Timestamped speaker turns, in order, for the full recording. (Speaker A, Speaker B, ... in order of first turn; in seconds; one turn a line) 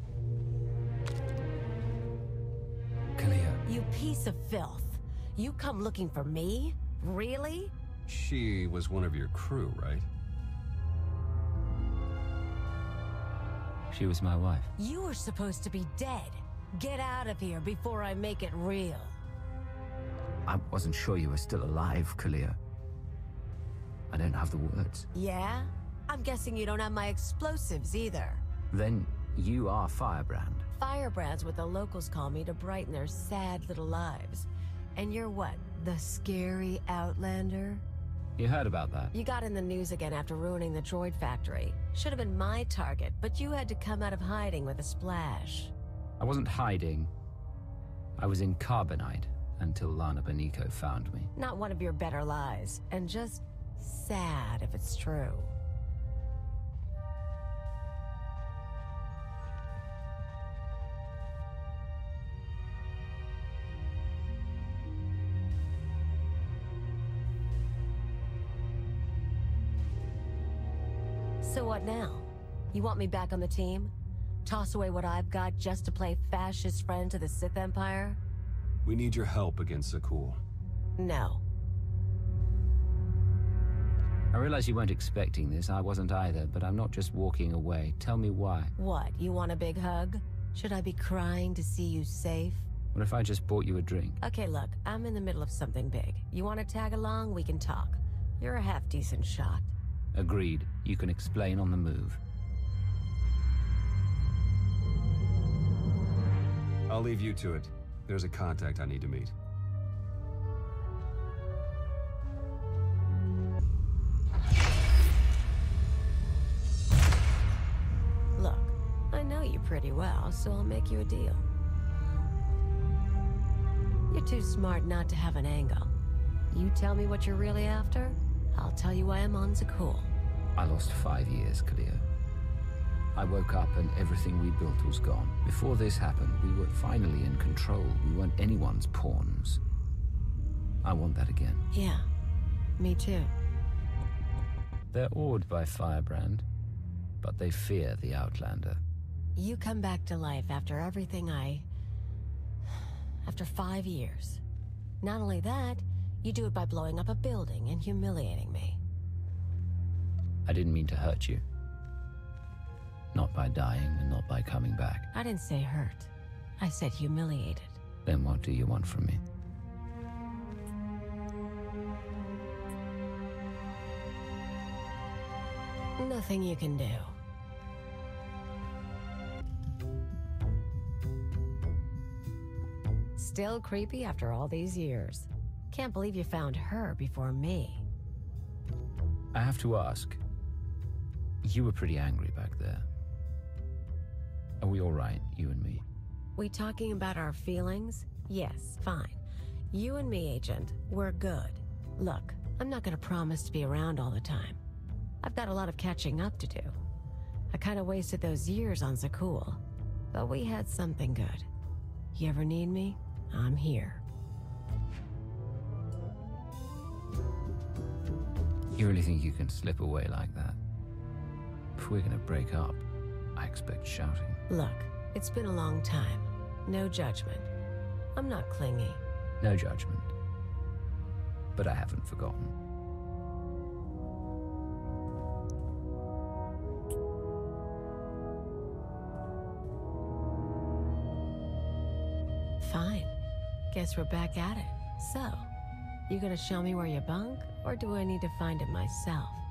Speaker A: 3.1-3.6
Speaker B: 3.6-7.7
Speaker C: 8.1-10.1
Speaker A: 13.9-14.7
Speaker B: 14.8-19.2
Speaker A: 20.4-22.6
Speaker A: 24.1-25.1
Speaker B: 25.1-28.4
Speaker A: 28.7-30.7
Speaker B: 30.8-37.8
Speaker A: 38.4-39.1
Speaker B: 39.1-45.7
Speaker A: 46.2-47.1
Speaker A: 48.2-51.3
Speaker B: 51.4-55.5
Speaker B: 71.4-73.9
Speaker B: 74.4-78.2
Speaker C: 78.8-80.4
Speaker B: 81.0-81.4
Speaker A: 84.3-88.7
Speaker B: 88.8-92.7
Speaker A: 92.9-94.2
Speaker B: 94.2-99.7
Speaker A: 100.1-102.2
Speaker C: 106.9-109.3
Speaker B: 118.3-121.4
Speaker B: 124.1-125.9
Speaker B: 126.5-130.1
Speaker A: 130.6-132.1
Speaker A: 133.2-139.6
Speaker A: 140.8-141.7
Speaker B: 141.7-142.1
Speaker B: 142.8-143.3
Speaker A: 144.9-146.5
Speaker A: 147.2-148.8
Speaker B: 149.3-151.7
Speaker B: 153.2-154.4
Speaker B: 155.0-158.8
Speaker A: 160.4-161.4
Speaker A: 163.1-165.1
Speaker B: 165.1-167.8
Speaker A: 168.0-169.2
Speaker B: 176.0-177.2
Speaker B: 183.2-187.8
Speaker A: 189.3-190.2
Speaker A: 191.4-192.9
Speaker A: 194.6-195.8
Speaker B: 196.3-199.2
Speaker B: 199.7-204.6
Speaker B: 205.2-206.8
Speaker B: 207.5-209.6
Speaker B: 210.1-211.5
Speaker B: 212.1-214.0
Speaker A: 218.7-220.6
Speaker A: 221.8-222.8
Speaker A: 223.3-224.4
Speaker B: 224.5-227.5
Speaker B: 228.2-229.0
Speaker A: 229.4-230.1
Speaker A: 231.5-232.5
Speaker B: 242.6-243.1
Speaker B: 243.7-245.5
Speaker B: 246.1-249.4